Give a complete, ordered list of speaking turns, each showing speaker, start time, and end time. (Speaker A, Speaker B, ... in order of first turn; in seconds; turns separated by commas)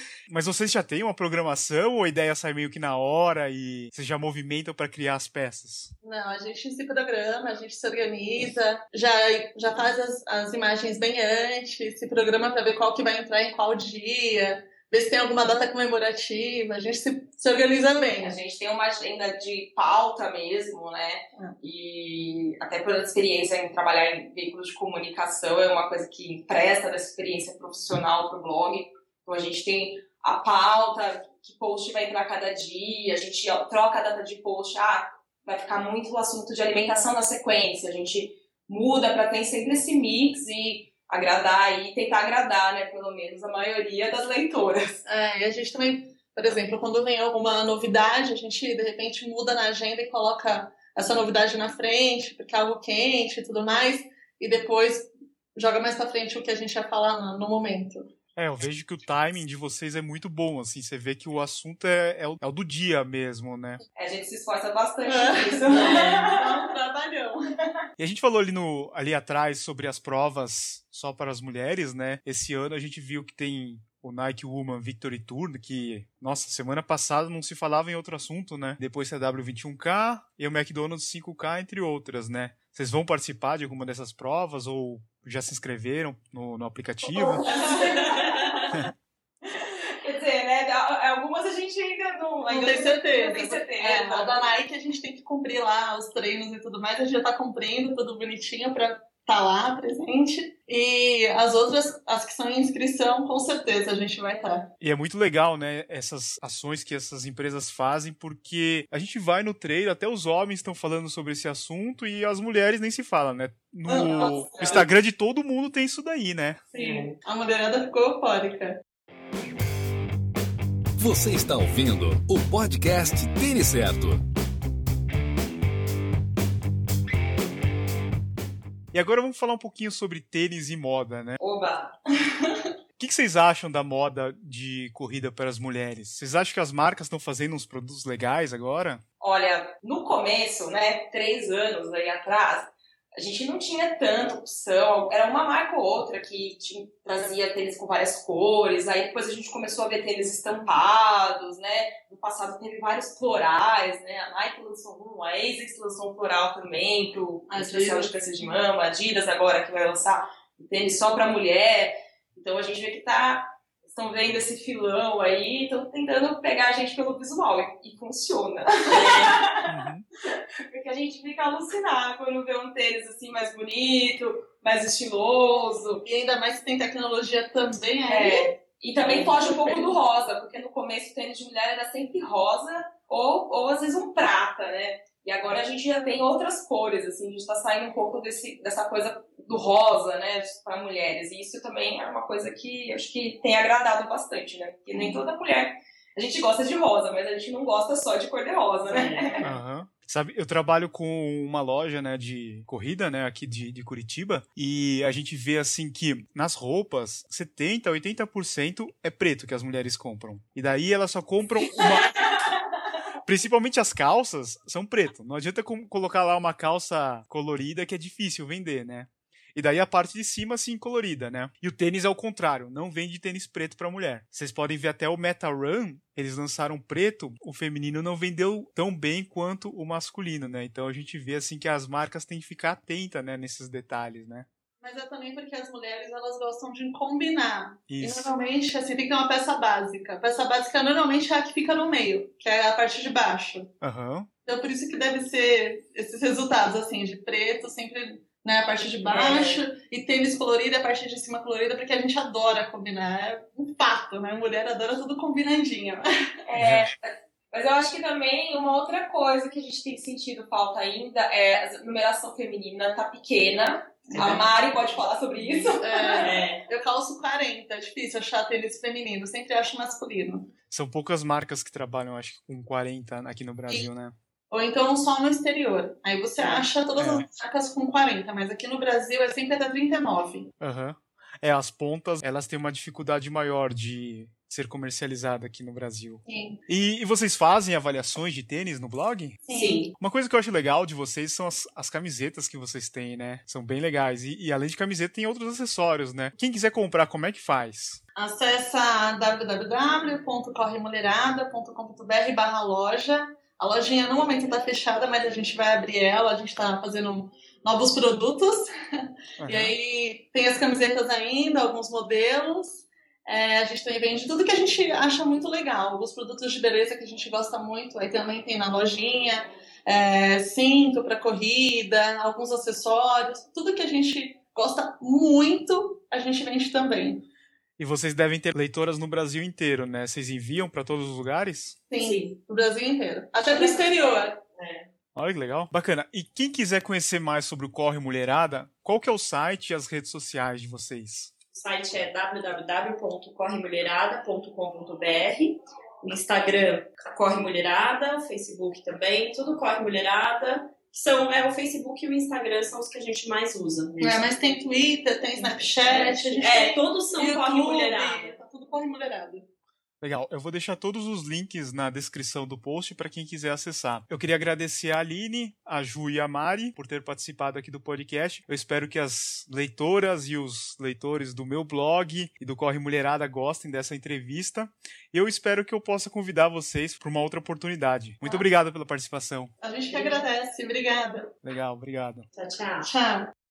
Speaker A: 0.3-5.9, Speaker B: 6.0-18.4, Speaker C: 18.2-45.0, Speaker B: 45.0-58.0, Speaker A: 58.4-63.8, Speaker C: 64.0-66.6, Speaker B: 65.0-67.4, Speaker D: 65.8-66.2, Speaker A: 68.0-87.5, Speaker C: 87.2-88.5, Speaker D: 87.8-88.6, Speaker C: 89.4-94.4, Speaker B: 92.5-104.7, Speaker A: 104.8-116.6, Speaker B: 113.9-114.8, Speaker B: 116.7-118.8, Speaker D: 116.8-117.2, Speaker E: 121.0-124.2, Speaker A: 128.9-131.4, Speaker C: 131.4-132.6, Speaker A: 133.0-139.0, Speaker C: 139.2-169.8, Speaker B: 157.5-158.6, Speaker D: 168.9-169.4, Speaker A: 169.7-170.1, Speaker C: 170.7-176.0, Speaker B: 176.1-180.0, Speaker C: 178.1-199.5, Speaker D: 198.9-199.3, Speaker A: 199.4-212.3, Speaker A: 213.2-234.5, Speaker B: 234.8-243.7, Speaker A: 237.9-238.3, Speaker A: 243.8-244.3, Speaker B: 244.5-256.1, Speaker C: 249.1-249.6, Speaker C: 256.5-266.3, Speaker A: 256.6-256.9, Speaker D: 264.1-264.4, Speaker B: 265.8-270.5, Speaker D: 266.2-266.6, Speaker A: 270.7-274.1, Speaker B: 274.5-280.5, Speaker D: 276.4-276.7, Speaker A: 277.0-277.3, Speaker A: 280.6-289.4, Speaker B: 286.3-286.6, Speaker B: 289.5-289.9, Speaker C: 289.5-289.9, Speaker A: 289.9-298.0, Speaker B: 298.2-327.2, Speaker A: 309.4-309.7, Speaker A: 327.8-331.8, Speaker B: 331.9-334.4, Speaker D: 332.0-332.4, Speaker D: 333.4-334.9, Speaker A: 335.1-341.3, Speaker D: 341.5-354.3, Speaker B: 354.0-359.4, Speaker D: 355.4-358.3, Speaker A: 360.0-379.5, Speaker B: 379.6-381.3, Speaker D: 379.9-380.2, Speaker A: 381.4-382.3, Speaker D: 382.3-382.9, Speaker B: 382.8-383.3